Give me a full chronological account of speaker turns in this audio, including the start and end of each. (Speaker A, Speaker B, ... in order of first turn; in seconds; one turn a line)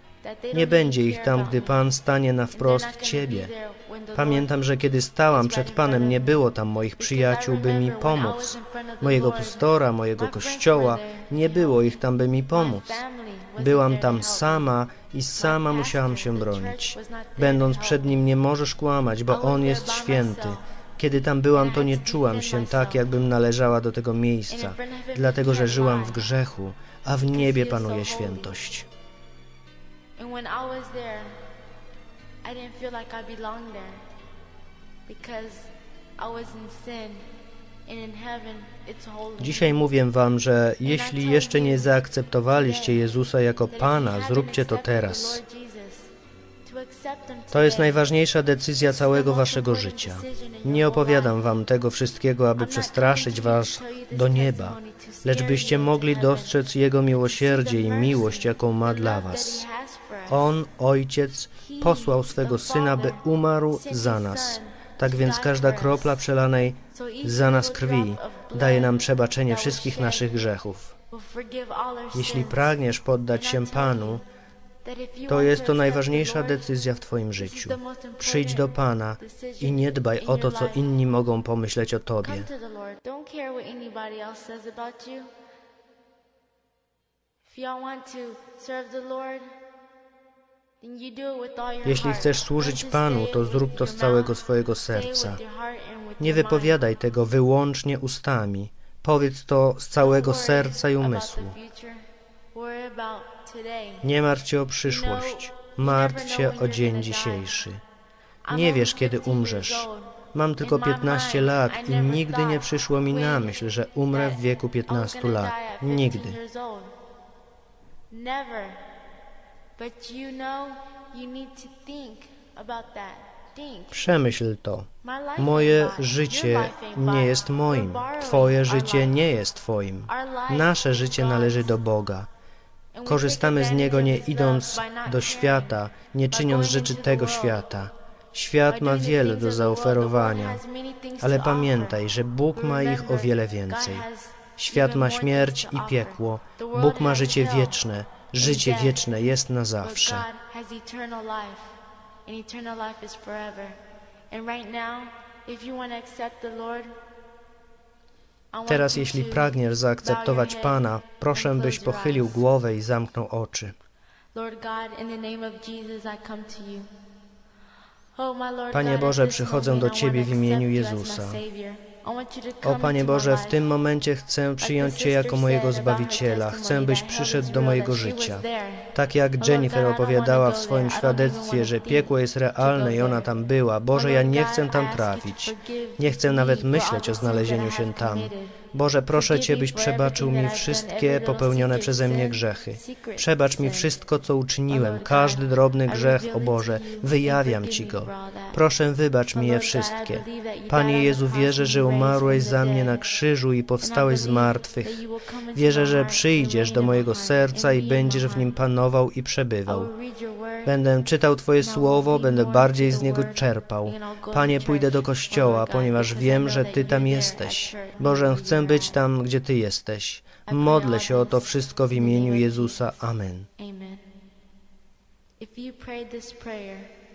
Speaker A: 0.2-1.9
Speaker B: 0.5-3.5
Speaker A: 2.5-4.6
Speaker B: 4.2-13.0
Speaker A: 5.3-6.5
Speaker A: 7.0-14.7
Speaker B: 13.6-28.9
Speaker A: 15.3-18.3
Speaker A: 19.3-20.6
Speaker A: 21.5-23.2
Speaker A: 24.5-26.3
Speaker A: 27.3-28.6
Speaker A: 30.2-31.4
Speaker A: 32.4-34.0
Speaker A: 35.1-37.3
Speaker A: 37.9-39.8
Speaker B: 39.4-45.4
Speaker A: 40.8-43.1
Speaker A: 43.7-46.1
Speaker A: 46.6-48.1
Speaker B: 47.5-59.6
Speaker A: 48.8-51.4
Speaker A: 52.6-60.5
Speaker B: 60.3-70.9
Speaker A: 61.6-66.2
Speaker A: 66.9-70.3
Speaker A: 71.1-74.2
Speaker B: 72.1-74.2
Speaker A: 74.8-76.7
Speaker B: 75.3-82.5
Speaker A: 77.4-80.9
Speaker A: 82.2-85.3
Speaker A: 87.5-89.5
Speaker A: 90.8-96.9
Speaker B: 91.8-95.4
Speaker B: 96.2-101.6
Speaker A: 99.9-104.1
Speaker B: 104.0-107.8
Speaker A: 104.8-107.5
Speaker A: 108.5-116.9
Speaker B: 108.5-116.4
Speaker A: 118.1-118.8
Speaker A: 119.8-124.0
Speaker B: 123.9-132.3
Speaker A: 125.0-129.2
Speaker A: 130.1-131.8
Speaker A: 132.9-135.8
Speaker B: 133.1-140.6
Speaker A: 136.3-137.7
Speaker A: 138.7-142.0
Speaker B: 141.2-144.1
Speaker A: 142.5-147.8
Speaker B: 144.6-150.3
Speaker A: 148.4-149.1
Speaker A: 149.8-157.0
Speaker A: 158.5-162.4
Speaker B: 158.7-163.8
Speaker A: 164.3-166.9
Speaker A: 168.2-173.7
Speaker B: 168.7-171.4
Speaker B: 172.6-178.4
Speaker A: 174.6-183.4
Speaker B: 178.9-205.0
Speaker A: 183.9-188.6
Speaker A: 189.1-193.9
Speaker A: 194.7-198.6
Speaker A: 199.3-203.0
Speaker A: 203.8-208.6
Speaker B: 205.5-209.9
Speaker A: 209.7-210.8
Speaker B: 210.7-223.5
Speaker A: 211.6-219.0
Speaker A: 220.5-222.8
Speaker A: 223.6-224.1
Speaker A: 225.4-226.9